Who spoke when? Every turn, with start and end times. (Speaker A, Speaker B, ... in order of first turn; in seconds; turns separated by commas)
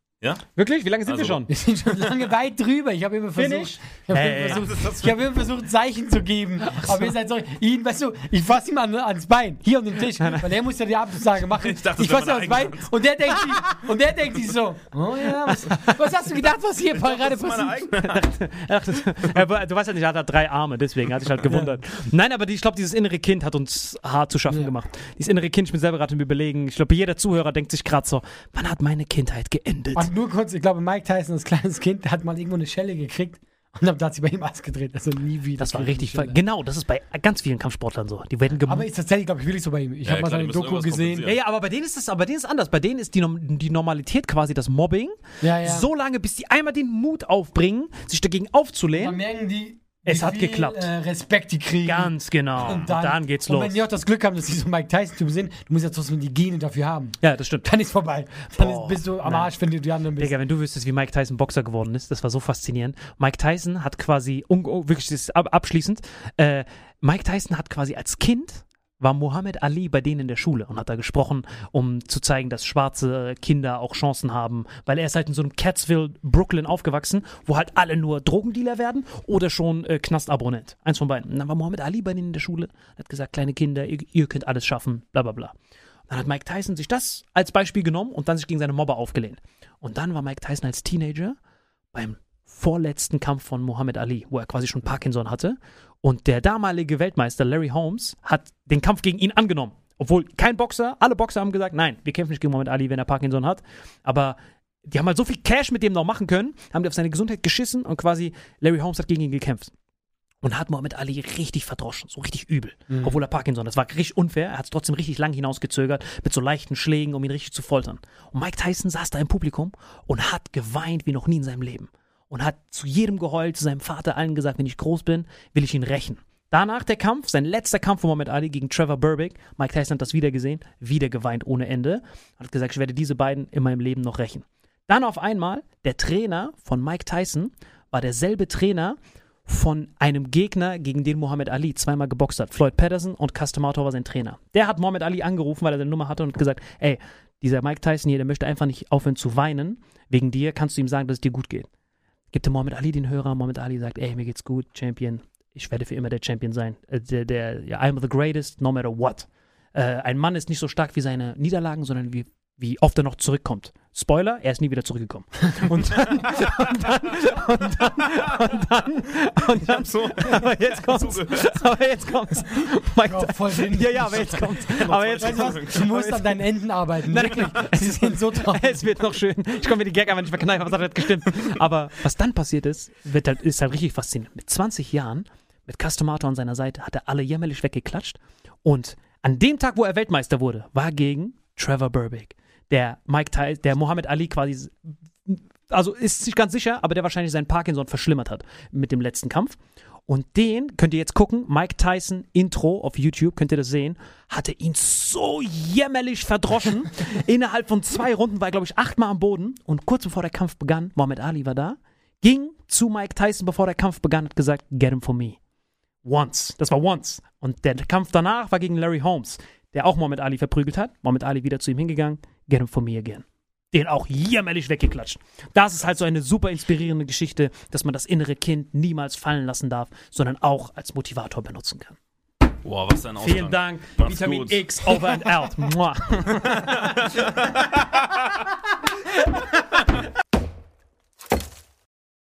Speaker A: 0.6-1.5, Speaker B: 1.0-1.4, Speaker C: 1.5-17.9, Speaker A: 3.3-5.0, Speaker B: 4.6-5.0, Speaker A: 6.6-7.0, Speaker B: 11.6-13.6, Speaker A: 15.5-15.9, Speaker B: 16.8-18.3, Speaker A: 18.0-30.1, Speaker C: 21.5-21.8, Speaker C: 29.9-36.4, Speaker A: 35.6-38.9, Speaker C: 38.7-41.3, Speaker B: 40.0-41.4, Speaker A: 41.2-49.2, Speaker C: 45.4-45.9, Speaker C: 49.0-60.3, Speaker A: 50.0-50.9, Speaker A: 51.8-53.8, Speaker A: 57.2-57.7, Speaker A: 58.5-59.5, Speaker A: 60.2-85.5, Speaker A: 86.1-91.4, Speaker A: 91.9-109.7, Speaker A: 110.4-151.7, Speaker C: 112.9-113.2, Speaker A: 152.3-176.4, Speaker C: 165.7-166.2, Speaker B: 169.6-171.6, Speaker C: 173.1-174.6, Speaker B: 174.6-175.9, Speaker C: 175.2-178.9, Speaker A: 177.1-215.4, Speaker A: 216.0-232.0, Speaker B: 232.6-235.2, Speaker A: 233.2-236.9, Speaker B: 236.3-238.2